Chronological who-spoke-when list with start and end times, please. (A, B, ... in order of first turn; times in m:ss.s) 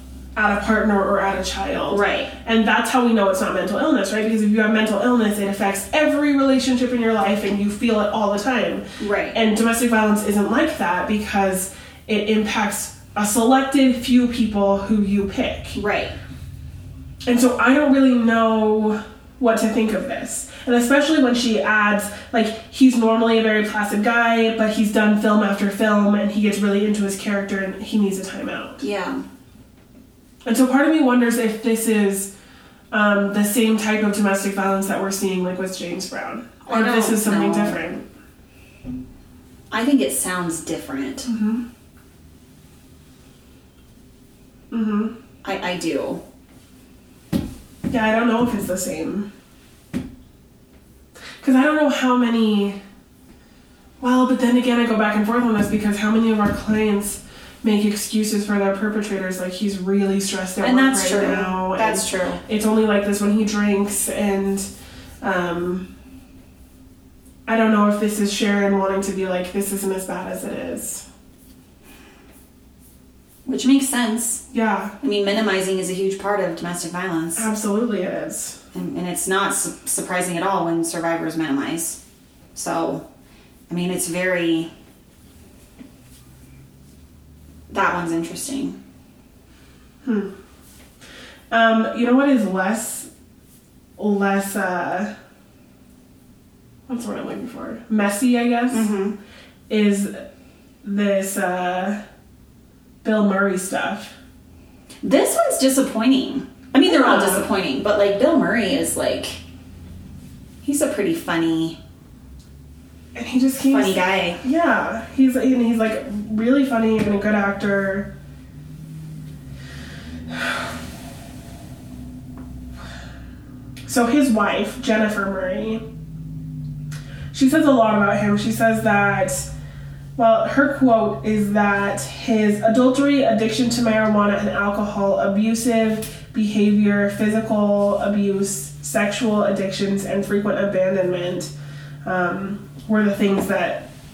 0:00.4-0:15.7 A
0:01.9-0:02.3 B
0:09.0-0:09.4 B
0:15.7-0:16.2 B
0:17.3-0:28.8 A
0:28.8-0:29.2 B
0:30.4-0:32.3 A
0:32.9-0:38.0 A
0:36.6-0:37.8 B
0:39.7-0:41.3 B
0:41.2-0:41.6 A
0:44.7-0:45.1 A
0:45.4-0:46.2 B
0:47.9-0:49.3 A
0:51.4-0:52.8 A
0:54.0-1:04.7 A
1:00.6-1:02.4 B
1:05.2-1:05.9 A
1:07.4-1:11.0 A
1:13.4-1:14.4 B
1:14.5-1:14.9 A
1:15.0-1:17.5 B
1:17.4-1:18.6 A
1:18.7-1:22.0 B
1:22.5-1:23.0 B
1:23.7-1:24.7 B
1:27.7-1:28.8 B
1:30.0-1:30.3 A
1:31.5-1:33.1 A
1:34.0-1:35.1 A
1:36.9-1:38.9 A
1:38.7-1:39.2 B
1:39.7-1:40.2 A
1:40.8-1:42.0 A
1:43.0-1:44.1 A
1:45.0-1:49.4 B
1:46.8-1:47.5 A
1:50.6-1:51.8 B
1:53.1-1:58.1 A
1:53.6-1:54.4 B
2:00.3-2:00.6 A
2:03.8-2:05.8 A
2:07.3-2:09.5 A
2:10.2-2:21.5 A
2:22.0-2:23.9 A